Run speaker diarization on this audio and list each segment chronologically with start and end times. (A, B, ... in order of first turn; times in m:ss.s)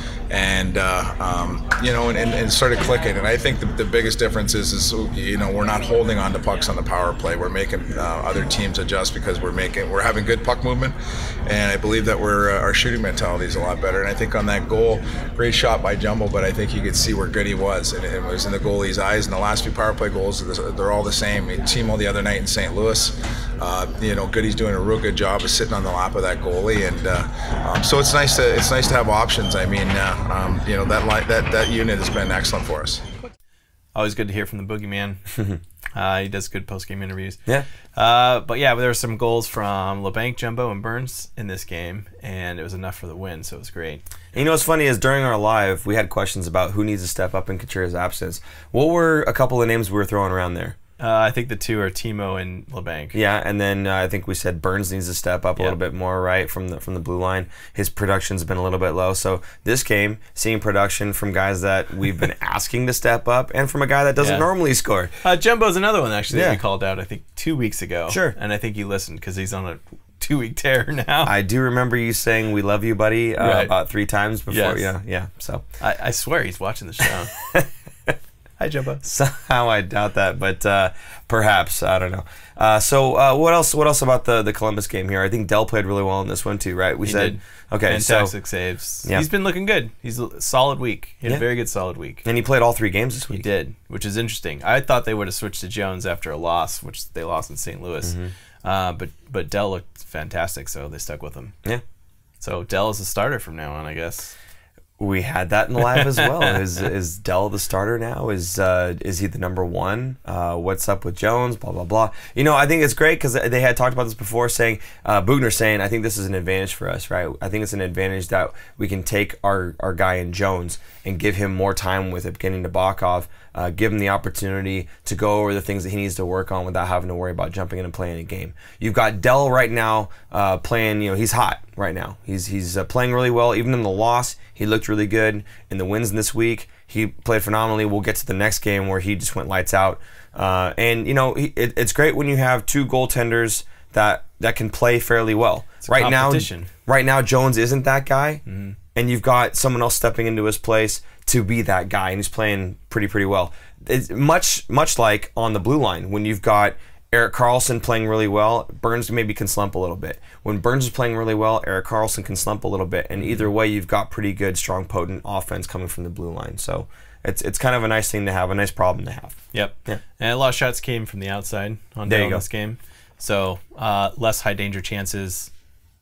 0:00.3-0:11.0 A
0:11.5-0:33.0 A
0:34.0-0:35.2 B
0:36.0-0:37.4 B
0:38.0-0:44.0 B
0:44.3-0:50.8 C
0:51.0-0:53.2 B
0:53.1-1:05.1 C
1:04.2-1:04.5 B
1:05.2-1:11.3 B
1:06.3-1:06.6 C
1:08.1-1:08.4 C
1:11.2-1:15.6 C
1:13.4-1:13.7 B
1:14.5-1:14.9 B
1:15.8-1:17.3 B
1:17.4-1:18.1 C
1:18.6-1:19.0 B
1:19.0-1:28.3 C
1:27.0-1:32.2 B
1:32.2-1:33.5 C
1:33.3-1:41.6 B
1:38.0-1:38.3 C
1:42.4-1:44.4 B
1:45.0-2:28.4 C
1:46.0-1:46.4 B
2:25.8-2:26.7 B
2:28.5-2:28.8 B
2:29.0-2:50.0 C
2:43.2-2:43.4 B
2:49.5-2:55.5 B
2:52.1-2:52.4 C